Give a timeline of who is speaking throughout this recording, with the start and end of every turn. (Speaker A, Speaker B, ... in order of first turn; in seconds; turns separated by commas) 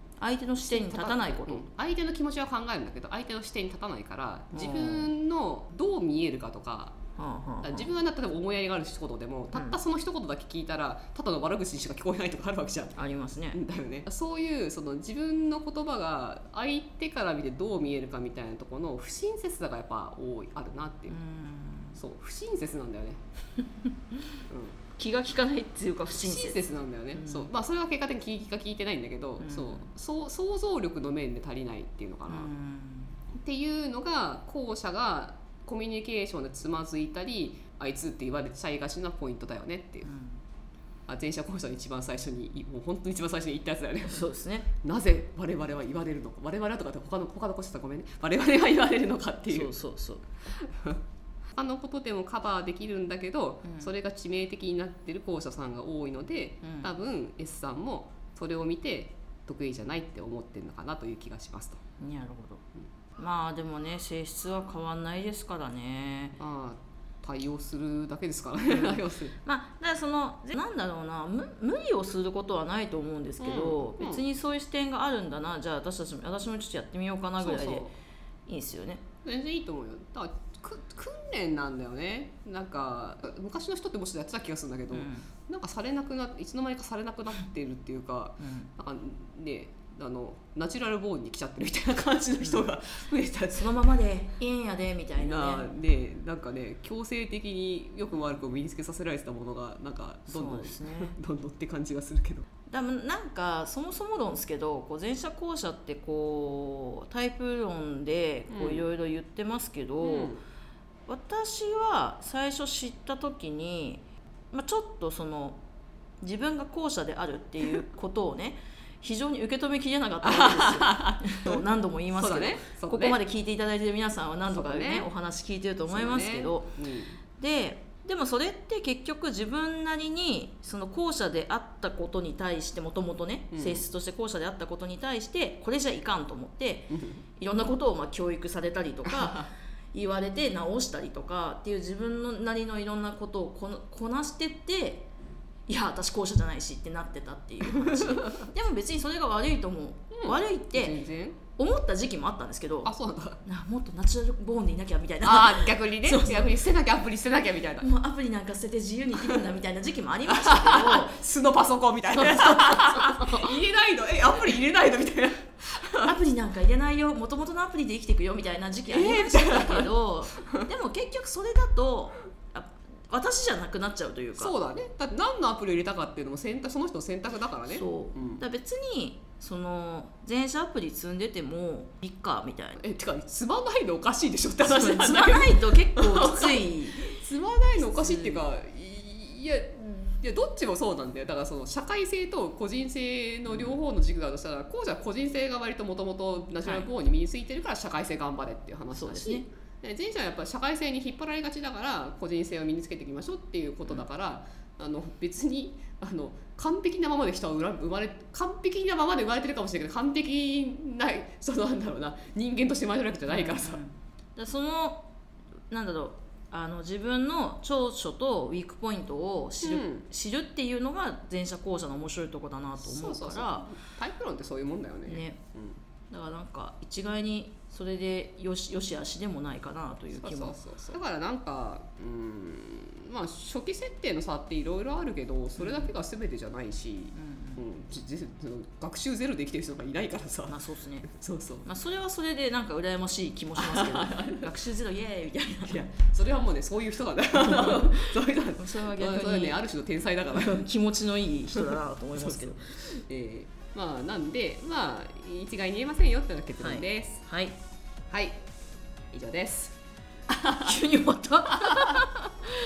Speaker A: 0.2-1.7, Speaker B: 0.6-7.0, Speaker A: 4.5-5.1, Speaker A: 7.2-7.9, Speaker B: 7.6-13.0, Speaker A: 13.0-13.6, Speaker B: 13.5-21.2, Speaker A: 21.1-22.0, Speaker B: 22.0-23.2, Speaker B: 24.5-24.8, Speaker A: 25.0-26.6, Speaker B: 26.1-32.5, Speaker A: 27.1-27.5, Speaker A: 29.4-29.9, Speaker A: 32.3-33.2, Speaker B: 33.4-40.1, Speaker A: 40.0-40.4, Speaker B: 41.1-44.3, Speaker A: 44.0-44.7, Speaker B: 44.8-49.7, Speaker A: 49.5-50.2, Speaker B: 50.6-51.0, Speaker B: 51.5-61.8, Speaker A: 53.6-53.9, Speaker A: 56.6-56.9, Speaker A: 62.0-62.6, Speaker A: 63.2-66.4, Speaker B: 66.4-69.3, Speaker A: 68.7-77.9, Speaker B: 73.4-74.2, Speaker B: 77.4-77.9, Speaker A: 78.5-79.0, Speaker B: 79.2-93.7, Speaker A: 84.9-85.3, Speaker A: 88.4-88.7, Speaker A: 92.4-92.7, Speaker A: 93.5-95.7, Speaker B: 95.2-102.5, Speaker A: 100.3-101.1, Speaker A: 102.7-110.3, Speaker B: 108.5-108.9, Speaker B: 110.0-110.4, Speaker A: 111.1-115.6, Speaker A: 116.2-126.7, Speaker B: 120.2-123.2, Speaker B: 124.5-125.1, Speaker B: 125.9-127.2, Speaker A: 127.4-145.1, Speaker B: 133.5-133.8, Speaker B: 136.9-137.2, Speaker B: 139.1-139.5, Speaker A: 145.7-151.0, Speaker B: 147.8-148.5, Speaker B: 150.2-151.4, Speaker A: 151.6-156.6, Speaker B: 152.8-153.4, Speaker B: 155.2-157.9, Speaker A: 157.8-161.2, Speaker B: 159.2-159.5, Speaker B: 160.3-166.1, Speaker A: 162.2-163.5, Speaker A: 166.0-174.6, Speaker B: 168.9-169.9, Speaker B: 174.4-178.4, Speaker A: 177.7-182.8, Speaker B: 182.8-213.8, Speaker A: 184.6-187.2, Speaker A: 187.7-188.5, Speaker A: 193.5-193.8, Speaker A: 196.6-196.9, Speaker A: 198.9-199.5, Speaker A: 213.3-215.1, Speaker A: 215.7-223.7, Speaker B: 219.6-220.1, Speaker B: 222.8-225.8, Speaker A: 225.1-225.4, Speaker A: 226.1-230.6, Speaker B: 230.2-241.7, Speaker A: 235.6-235.9, Speaker A: 237.1-237.6, Speaker A: 240.5-241.1, Speaker A: 241.7-245.9, Speaker B: 243.6-244.4, Speaker B: 245.7-250.6, Speaker A: 247.4-249.6, Speaker A: 250.3-252.9, Speaker B: 251.5-257.2, Speaker A: 256.6-257.6, Speaker B: 258.1-258.4, Speaker B: 259.1-259.8, Speaker B: 260.3-260.8, Speaker A: 260.6-262.2, Speaker B: 261.5-262.0